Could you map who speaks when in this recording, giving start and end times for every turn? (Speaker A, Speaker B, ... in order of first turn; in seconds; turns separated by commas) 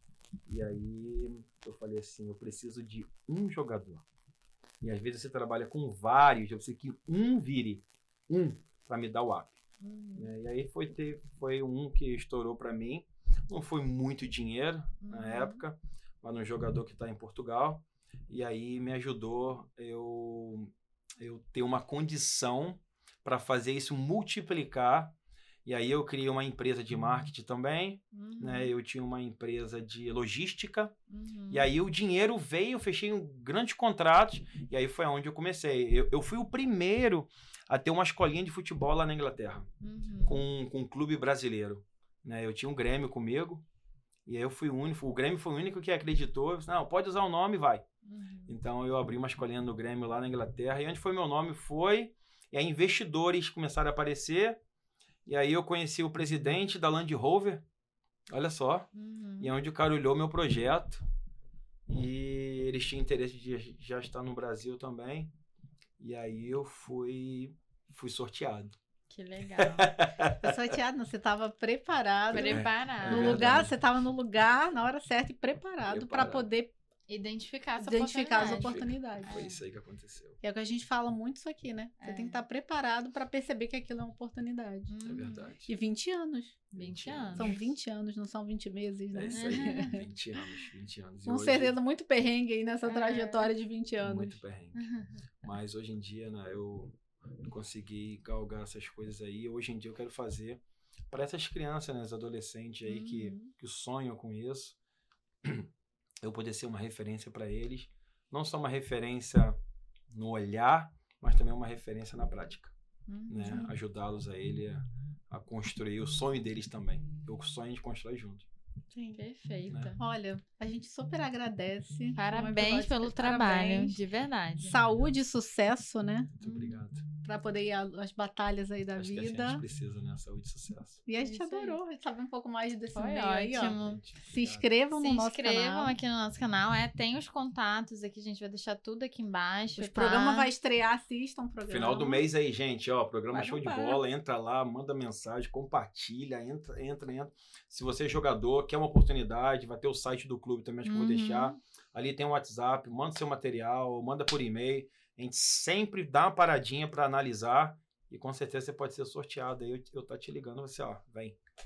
Speaker A: 0.5-4.0, Speaker A: 4.8-9.6, Speaker B: 9.8-10.3, Speaker A: 10.2-25.1, Speaker B: 15.0-15.6, Speaker A: 25.6-30.9, Speaker B: 28.1-28.7, Speaker B: 31.1-31.7, Speaker A: 31.5-39.7, Speaker B: 39.8-40.5, Speaker A: 40.2-43.6, Speaker A: 44.3-47.9, Speaker B: 48.0-48.6, Speaker A: 48.5-54.6, Speaker A: 55.3-57.6, Speaker A: 58.3-58.9, Speaker B: 58.9-59.5, Speaker A: 59.4-61.0, Speaker A: 61.9-65.3, Speaker A: 66.0-68.8, Speaker B: 69.1-69.9, Speaker A: 69.6-70.6, Speaker C: 70.4-76.7, Speaker B: 72.3-73.6, Speaker A: 72.3-73.7, Speaker A: 75.9-76.5, Speaker B: 77.1-79.6, Speaker C: 77.8-79.4, Speaker A: 78.4-80.4, Speaker C: 80.4-84.9, Speaker B: 82.0-82.4, Speaker B: 84.9-85.5, Speaker A: 85.0-85.7, Speaker C: 85.7-86.7, Speaker B: 86.7-87.6, Speaker A: 86.8-87.6, Speaker C: 87.4-90.0, Speaker A: 89.1-91.8, Speaker B: 89.3-90.0, Speaker C: 91.3-94.4, Speaker B: 92.8-93.5, Speaker A: 94.0-94.8, Speaker B: 94.8-95.2, Speaker A: 95.4-100.6, Speaker A: 101.1-104.8, Speaker B: 102.9-103.5, Speaker A: 106.2-109.6, Speaker A: 110.1-112.7, Speaker B: 113.1-113.7, Speaker A: 113.3-118.5, Speaker C: 118.9-119.2, Speaker B: 119.1-120.0, Speaker C: 120.0-124.0, Speaker B: 122.2-124.8, Speaker C: 124.6-126.3, Speaker A: 126.4-127.1, Speaker B: 126.4-126.8, Speaker C: 127.2-129.6, Speaker A: 129.0-131.0, Speaker C: 131.1-135.9, Speaker B: 131.2-131.8, Speaker B: 132.9-134.0, Speaker A: 133.6-134.7, Speaker B: 135.0-140.5, Speaker C: 139.8-142.2, Speaker A: 141.7-161.4, Speaker C: 143.3-144.0, Speaker B: 150.8-151.6